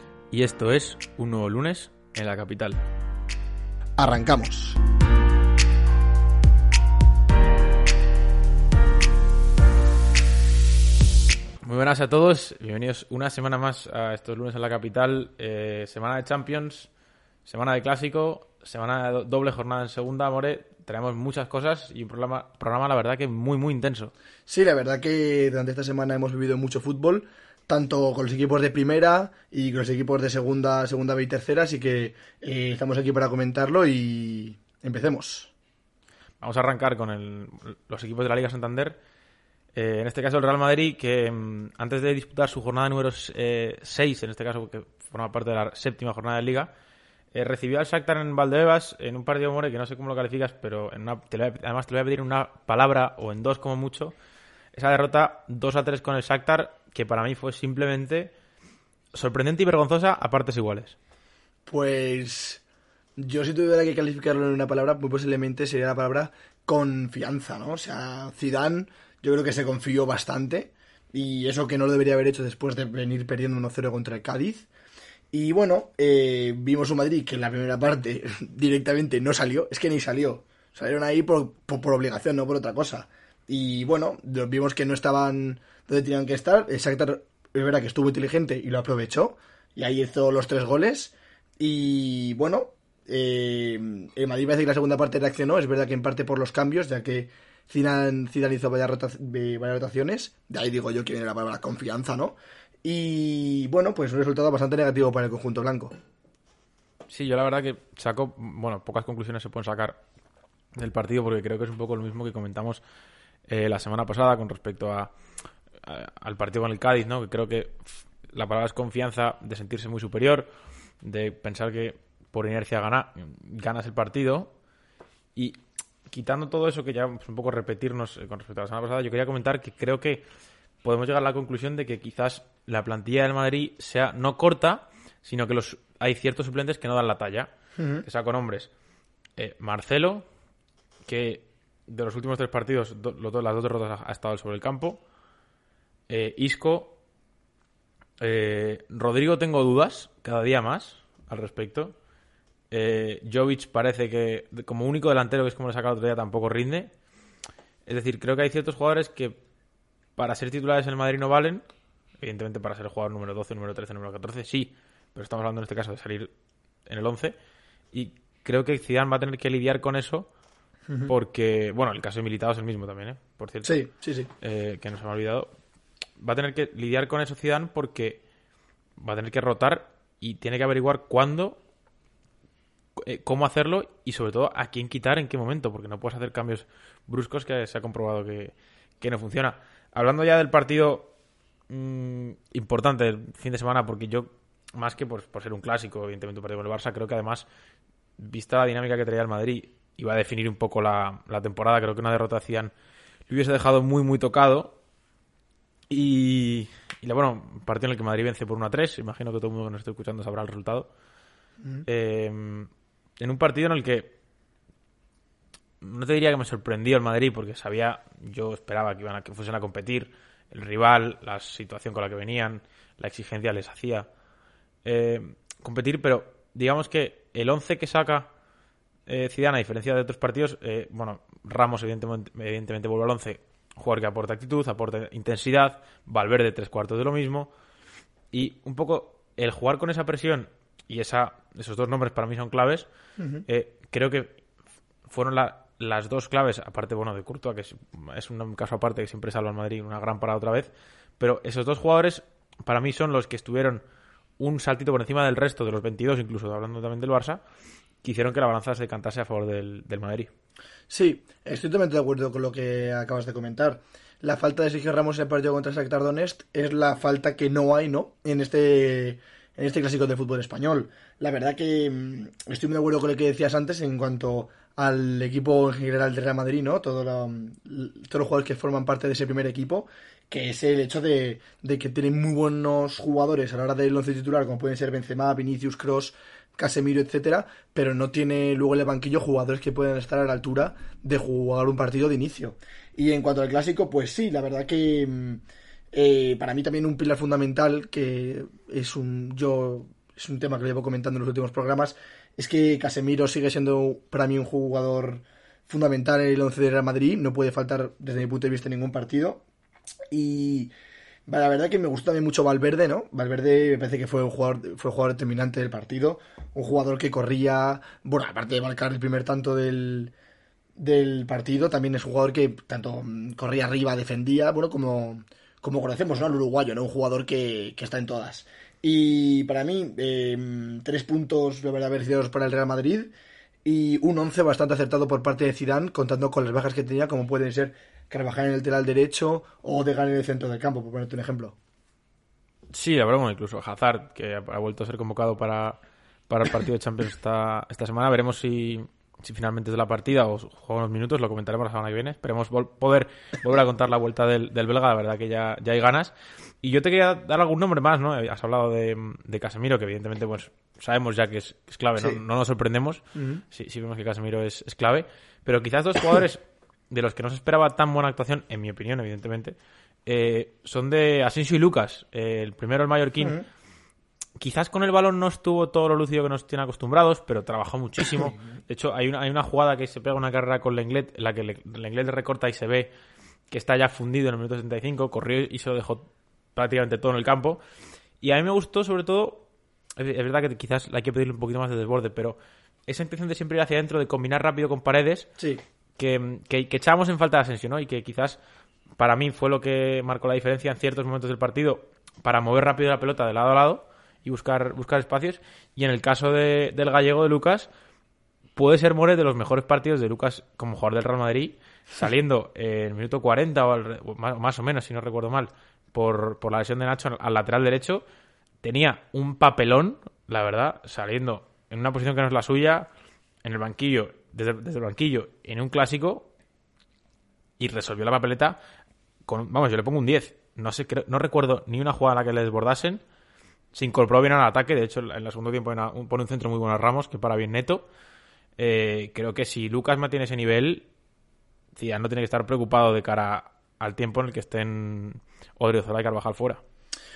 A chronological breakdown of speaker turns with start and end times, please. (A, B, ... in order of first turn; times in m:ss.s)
0:00.3-0:02.8 A
0:04.0-0:04.8 B
0:11.6-0:16.9 A
0:17.4-0:24.1 A
0:24.5-0:35.5 B
0:36.4-0:39.0 A
0:39.7-0:46.7 A
0:47.3-0:54.1 A
0:54.7-0:58.3 A
0:59.1-1:01.0 A
1:01.7-1:02.6 B
1:03.2-1:14.7 B
1:15.3-1:45.9 B
1:47.1-1:50.0 A
1:50.8-1:52.8 A
1:53.5-1:55.1 A
1:55.8-2:00.5 A
2:01.0-2:04.5 A
2:05.3-2:10.2 A
2:10.8-2:17.5 A
2:17.8-2:18.0 B
2:18.0-2:18.7 A
2:19.4-2:20.2 A
2:21.0-2:25.0 A
2:26.1-2:27.0 A
2:28.2-2:32.0 A
2:32.7-2:36.9 A
2:37.8-2:39.4 A
2:40.2-2:41.6 A
2:42.2-2:46.3 A
2:46.8-2:47.4 A
2:47.9-2:50.3 A
2:51.1-2:53.8 A
2:53.6-2:54.3 B
2:54.4-2:55.5 A
2:56.2-2:58.2 A
2:59.0-3:01.6 A
3:03.0-3:11.1 A
3:11.7-3:17.5 A
3:18.2-3:22.7 A
3:23.3-3:24.8 A
3:25.9-3:30.9 A
3:31.8-3:34.1 A
3:35.8-3:44.1 A
3:44.8-3:48.3 A
3:49.1-3:57.5 A
3:58.3-4:02.9 A
4:03.2-4:03.4 B
4:03.5-4:04.4 A
4:05.0-4:13.8 A
4:14.4-4:17.4 A
4:18.0-4:20.3 A
4:20.9-4:55.4 B
4:55.9-5:09.4 B
5:10.1-5:10.7 B
5:11.3-5:20.1 B
5:20.8-5:33.1 B
5:33.6-5:41.6 B
5:42.7-6:13.4 A
6:03.1-6:03.4 B
6:14.4-6:22.9 A
6:23.5-6:27.6 A
6:28.2-6:35.3 A
6:36.0-6:38.4 A
6:39.0-6:47.7 A
6:48.5-6:58.0 A
6:58.6-7:02.9 A
7:03.4-7:06.3 A
7:07.6-7:08.6 A
7:09.2-7:13.0 A
7:13.7-7:17.9 A
7:18.6-7:20.9 A
7:21.7-7:26.6 A